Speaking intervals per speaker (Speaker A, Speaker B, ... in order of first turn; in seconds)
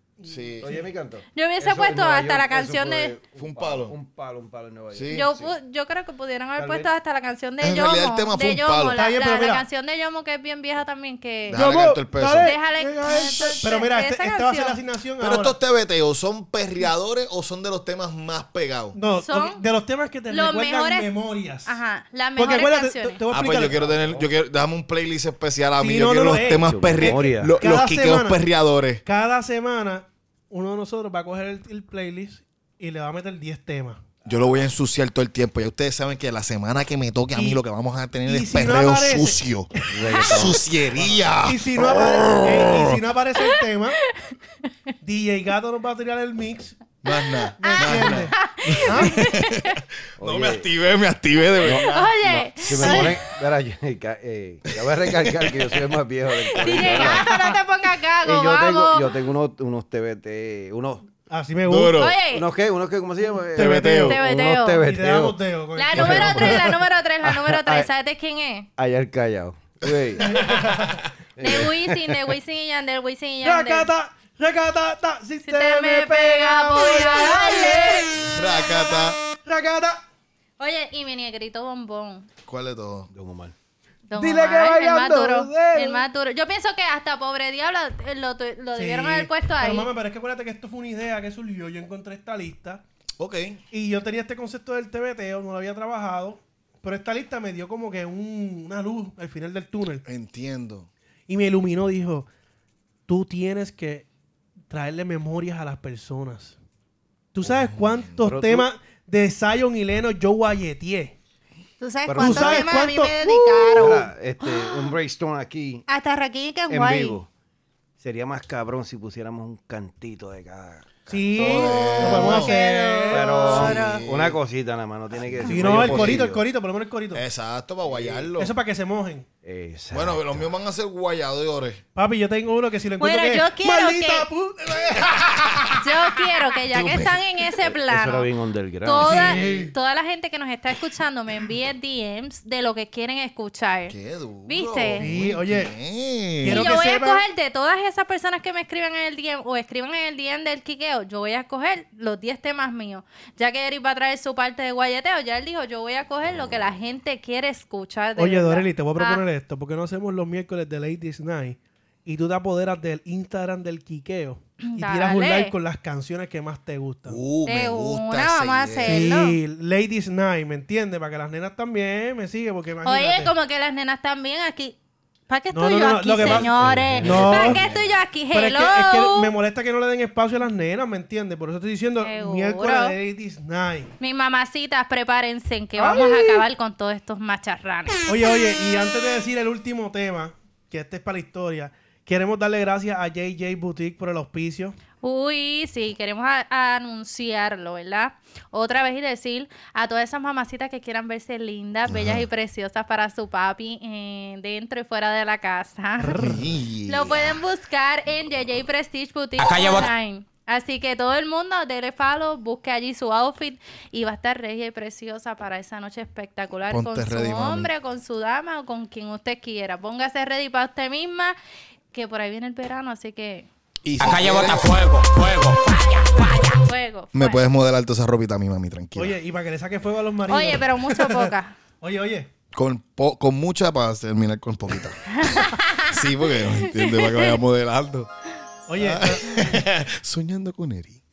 Speaker A: 0.2-0.9, 8.9-9.7, 11.5-15.6, 18.9-21.8, 22.4-23.9, 25.8-28.4, 29.0-34.0, 37.3-37.6, 38.3-40.5, 41.5-44.0, 45.0-46.8, 47.6-49.2, 57.0-57.5, 61.3-62.1, 63.5-64.2, 64.8-66.8, 70.2-71.0, 73.4-78.3, 79.4-80.0, 84.2-86.0, 88.8-92.8, 93.7-100.0, 101.3-102.3, 103.1-104.1, 104.7-106.6, 107.3-111.2, 112.2-114.0, 121.1-124.0, 125.5-127.2, 128.4-129.3, 131.9-135.3, 139.0-139.7, 145.0-145.7, 146.4-147.2, 158.2-167.2, 168.8-173.3, 175.5-177.6, 178.3-183.9, 185.8-186.4, 188.1-194.8, 206.0-206.4, 229.0-232.3, 238.7-239.4
Speaker B: 0.2-0.7, 3.4-4.0, 4.9-5.4, 7.6-9.0, 11.5-12.6, 13.2-13.6, 15.2-19.0, 23.3-29.0, 34.2-43.0, 47.0-53.2, 54.7-55.8, 56.7-57.0, 61.6-62.2, 63.5-64.2, 69.8-71.6, 78.2-79.2, 82.5-83.1, 93.2-93.6, 100.1-100.9, 107.5-108.2, 121.3-122.6, 123.4-124.4, 125.5-126.3, 127.1-128.5, 129.9-131.8, 134.9-135.8, 136.6-137.2, 139.3-139.7, 143.9-146.7, 167.1-169.1, 177.0-177.8, 201.9-202.3, 206.2-207.4, 216.7-217.7, 223.8-224.6, 227.1-229.2, 232.5-238.1, 238.8-241.0
Speaker C: 0.6-5.5, 6.6-6.9, 23.7-24.3, 26.6-27.6, 39.9-41.2, 50.2-50.7, 51.6-51.9, 52.4-57.2, 58.2-61.1, 62.3-65.4, 66.0-66.7, 67.2-67.9, 68.8-70.4, 71.4-71.8, 83.1-83.5, 108.2-108.7, 112.1-112.7, 113.8-115.8, 116.7-117.3, 118.0-122.4, 123.1-126.4, 127.9-128.3, 129.4-130.5, 137.6-139.6, 176.2-177.8
Speaker D: 1.3-3.1, 5.1-11.6, 12.4-14.8, 19.2-19.6, 20.3-21.1, 21.7-23.2, 47.6-49.8, 51.8-53.1, 56.6-59.1, 62.0-62.5, 64.0-64.8, 65.8-68.7, 71.4-73.9, 75.4-78.3, 80.6-82.3, 84.1-89.9, 111.8-114.9, 115.9-117.2, 121.8-124.0, 133.0-134.3, 135.8-138.3, 138.8-143.9, 144.5-145.1, 146.5-159.2, 164.6-165.5, 167.4-169.4, 172.8-174.8, 175.3-179.3, 182.0-182.9, 184.0-188.1, 195.0-206.3, 206.9-221.3, 221.9-223.5, 226.6-227.4, 230.3-231.6, 235.1-237.4
Speaker E: 209.4-209.9, 224.0-226.7